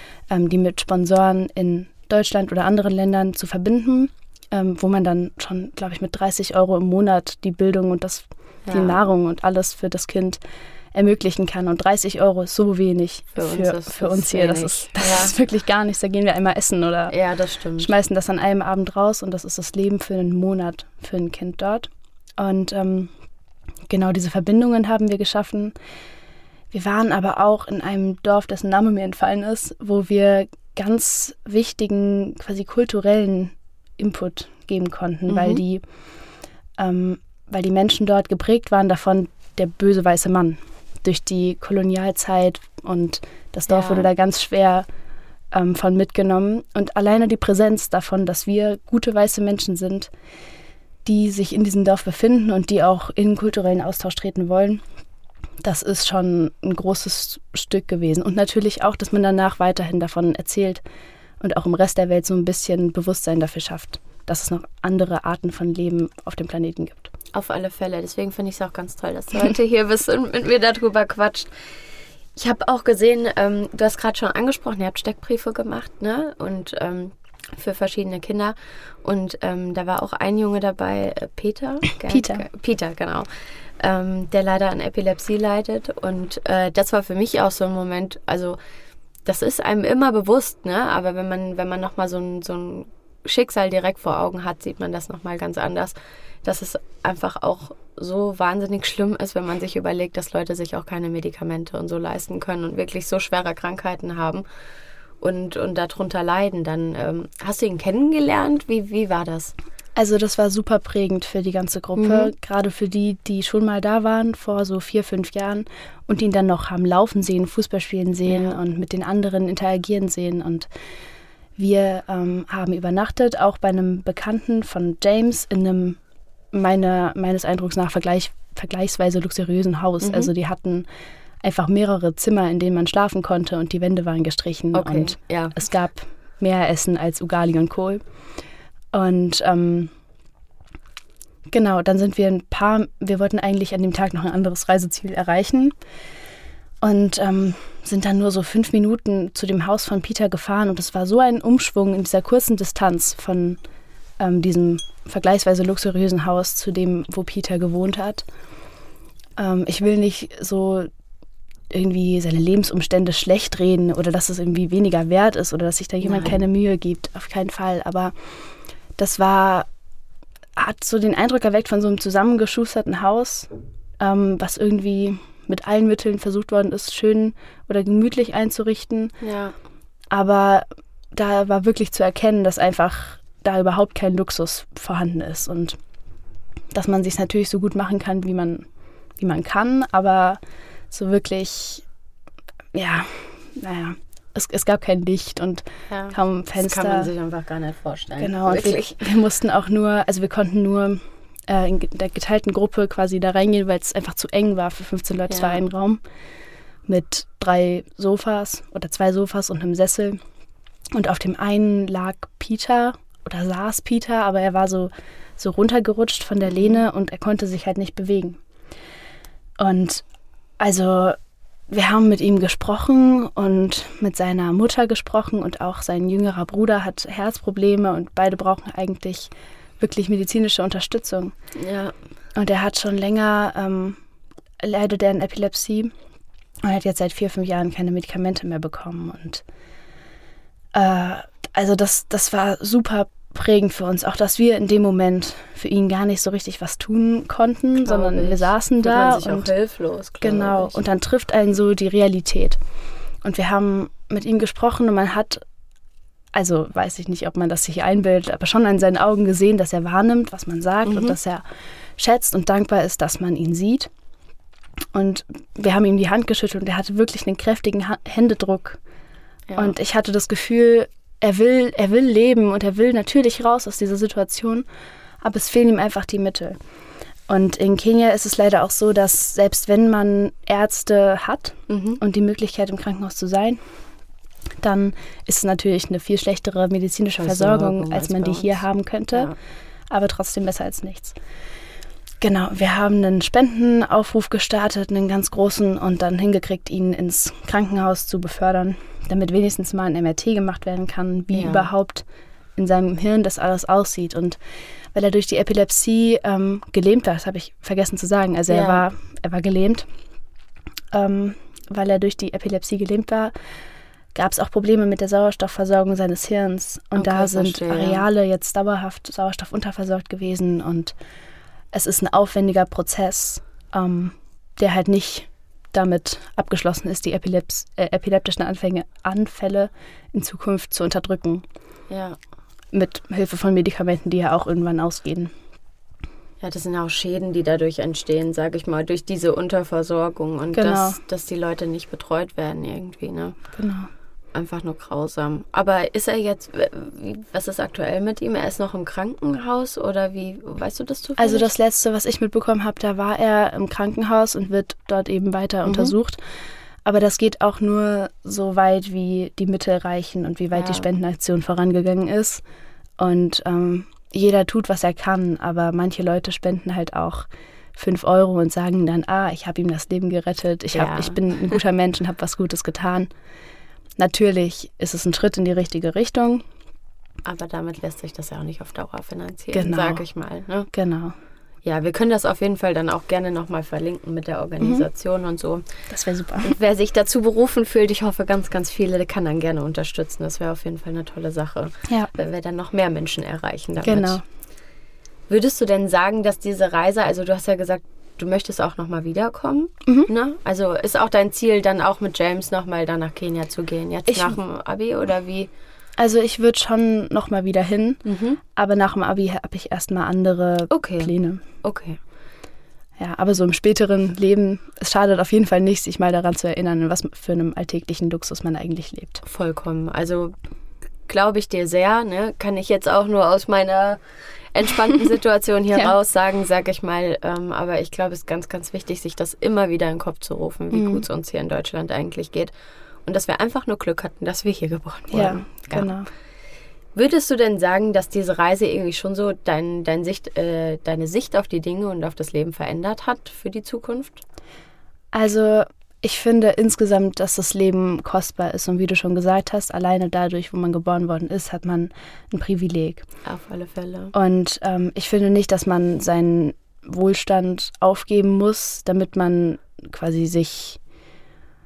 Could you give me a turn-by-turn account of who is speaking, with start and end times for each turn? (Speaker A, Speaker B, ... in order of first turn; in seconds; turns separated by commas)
Speaker A: 0.3-10.4, Speaker B: 8.7-9.0, Speaker A: 10.9-17.2, Speaker B: 13.4-15.3, Speaker B: 17.1-17.9, Speaker A: 17.8-23.1, Speaker A: 23.9-25.7, Speaker A: 26.7-35.8, Speaker B: 35.3-35.6, Speaker A: 36.8-44.9, Speaker B: 43.7-44.1, Speaker A: 45.5-50.1, Speaker A: 51.0-54.8, Speaker A: 55.6-60.8, Speaker A: 61.4-67.1, Speaker B: 67.3-71.5, Speaker B: 72.4-83.3, Speaker A: 82.1-82.5, Speaker B: 83.8-88.6, Speaker B: 89.2-104.4, Speaker B: 105.2-109.5, Speaker A: 110.0-120.7, Speaker B: 112.0-112.3, Speaker B: 118.3-118.6, Speaker A: 121.6-126.0, Speaker A: 126.5-130.9, Speaker B: 130.0-130.3, Speaker A: 131.4-138.0, Speaker B: 134.7-135.6, Speaker A: 138.9-139.9, Speaker A: 141.5-145.7, Speaker A: 146.8-153.6, Speaker A: 154.2-158.2, Speaker A: 159.4-160.9, Speaker A: 161.7-168.1, Speaker B: 166.0-166.4, Speaker A: 169.0-169.7, Speaker A: 170.6-173.5, Speaker A: 174.0-179.2, Speaker B: 179.2-179.6, Speaker A: 180.1-185.8, Speaker A: 186.7-188.7, Speaker A: 189.2-190.4, Speaker A: 190.9-191.8, Speaker A: 192.7-197.1, Speaker B: 195.9-199.0, Speaker A: 198.2-206.0, Speaker B: 205.3-205.6, Speaker A: 206.9-210.2, Speaker A: 210.9-218.4, Speaker B: 216.5-216.8, Speaker A: 219.6-220.0, Speaker A: 220.6-221.2, Speaker A: 221.7-231.3, Speaker B: 231.6-231.9, Speaker A: 232.4-234.0, Speaker A: 234.6-235.9, Speaker A: 236.6-239.4, Speaker A: 240.7-249.5, Speaker B: 247.8-250.8, Speaker A: 250.2-252.6, Speaker A: 253.2-255.4, Speaker A: 256.3-261.4, Speaker B: 260.9-261.2, Speaker A: 262.0-263.9, Speaker A: 264.9-268.8, Speaker B: 269.5-269.8, Speaker A: 269.6-274.6, Speaker A: 275.2-276.6, Speaker A: 277.3-283.6, Speaker B: 281.7-282.0, Speaker A: 284.6-289.3, Speaker B: 287.2-289.4, Speaker A: 289.9-291.1, Speaker A: 292.2-302.0, Speaker B: 301.3-301.7, Speaker A: 302.6-304.4, Speaker A: 304.9-309.9, Speaker B: 308.5-308.9, Speaker A: 310.9-313.3, Speaker A: 314.1-320.9, Speaker B: 316.9-318.1, Speaker A: 321.7-331.4, Speaker B: 331.9-332.2, Speaker A: 332.7-335.3, Speaker B: 336.4-343.4, Speaker A: 340.5-341.0, Speaker A: 343.6-343.9, Speaker B: 344.3-351.5, Speaker A: 351.2-356.2, Speaker B: 355.6-355.9, Speaker A: 356.9-362.4, Speaker B: 360.5-360.9, Speaker A: 363.0-373.1, Speaker B: 370.7-371.6, Speaker A: 374.0-376.4, Speaker B: 377.2-380.7, Speaker A: 379.5-380.1, Speaker A: 380.7-381.1, Speaker B: 381.6-385.7, Speaker A: 384.6-384.9, Speaker A: 385.9-386.5, Speaker B: 386.4-394.2, Speaker A: 393.8-394.2, Speaker B: 395.3-405.5, Speaker A: 404.1-404.4, Speaker A: 406.0-411.4, Speaker B: 408.1-408.4, Speaker B: 410.7-412.0, Speaker A: 413.0-419.2, Speaker B: 419.2-420.4, Speaker B: 421.1-424.0, Speaker B: 424.5-432.5, Speaker A: 430.7-431.1, Speaker B: 433.1-435.9, Speaker A: 435.1-436.1, Speaker B: 436.9-444.2, Speaker A: 445.1-453.0, Speaker B: 453.2-454.1, Speaker A: 454.1-460.8